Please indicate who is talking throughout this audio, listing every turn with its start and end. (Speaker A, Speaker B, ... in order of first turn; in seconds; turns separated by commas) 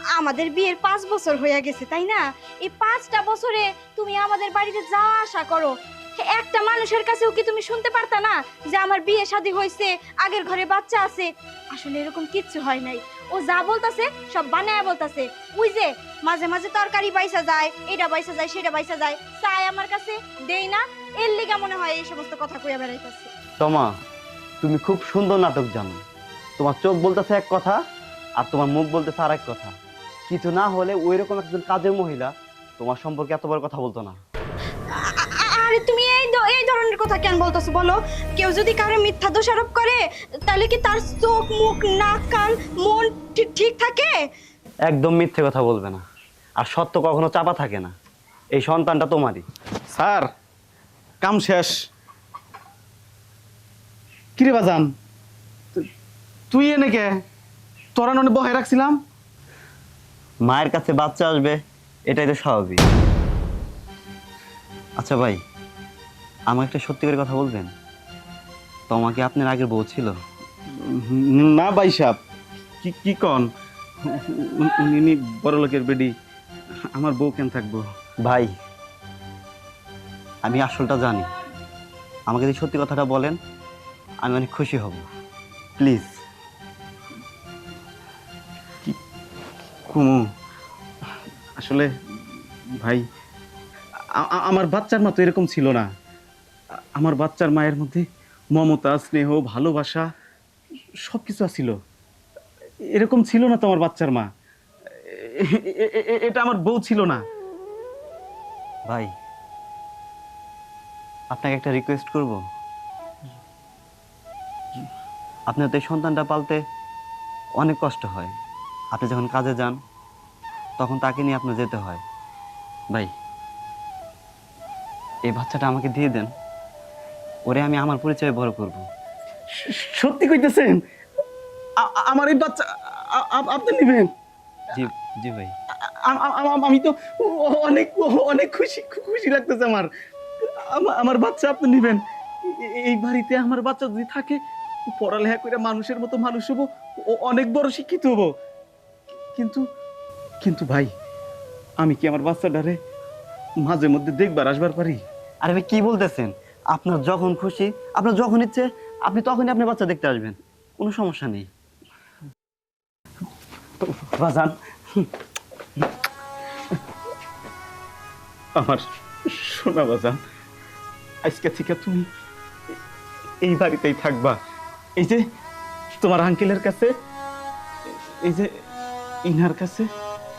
Speaker A: 0.1-23.3, Speaker B: 23.6-23.9, Speaker B: 24.6-26.0, Speaker B: 26.6-27.8, Speaker B: 28.4-29.7, Speaker B: 30.3-34.2, Speaker A: 35.0-44.1, Speaker B: 44.9-46.0, Speaker B: 46.6-47.9, Speaker B: 48.5-49.4, Speaker C: 49.9-50.3, Speaker C: 51.2-51.7, Speaker C: 54.4-54.9, Speaker C: 56.5-57.1, Speaker C: 57.9-59.0, Speaker B: 60.4-62.8, Speaker B: 65.0-65.4, Speaker B: 66.5-67.7, Speaker B: 68.9-70.1, Speaker C: 70.9-72.2, Speaker C: 72.8-73.4, Speaker C: 74.0-76.1, Speaker C: 76.9-77.8, Speaker B: 78.2-78.5, Speaker B: 80.4-81.3, Speaker B: 82.3-83.4, Speaker B: 84.2-85.0, Speaker B: 85.8-86.1, Speaker C: 89.9-90.2, Speaker C: 91.6-91.9, Speaker C: 94.2-95.8, Speaker C: 97.0-100.1, Speaker C: 101.1-101.8, Speaker C: 102.9-104.3, Speaker C: 105.0-107.2, Speaker B: 111.3-112.4, Speaker B: 115.5-116.6, Speaker B: 117.6-118.3, Speaker B: 118.9-119.8, Speaker B: 120.8-122.0, Speaker B: 125.2-126.3, Speaker B: 127.5-128.9, Speaker C: 129.6-130.8, Speaker C: 131.8-134.1, Speaker B: 134.7-135.5, Speaker C: 136.0-139.9, Speaker C: 140.7-144.4, Speaker C: 144.9-148.3, Speaker C: 149.3-149.6, Speaker C: 150.4-150.9, Speaker C: 151.8-152.8, Speaker C: 153.6-155.0, Speaker B: 155.4-161.5, Speaker C: 168.6-170.2, Speaker C: 171.2-172.1, Speaker C: 173.4-174.3, Speaker C: 175.0-175.2, Speaker C: 176.0-176.9, Speaker C: 177.9-178.5, Speaker C: 179.2-179.9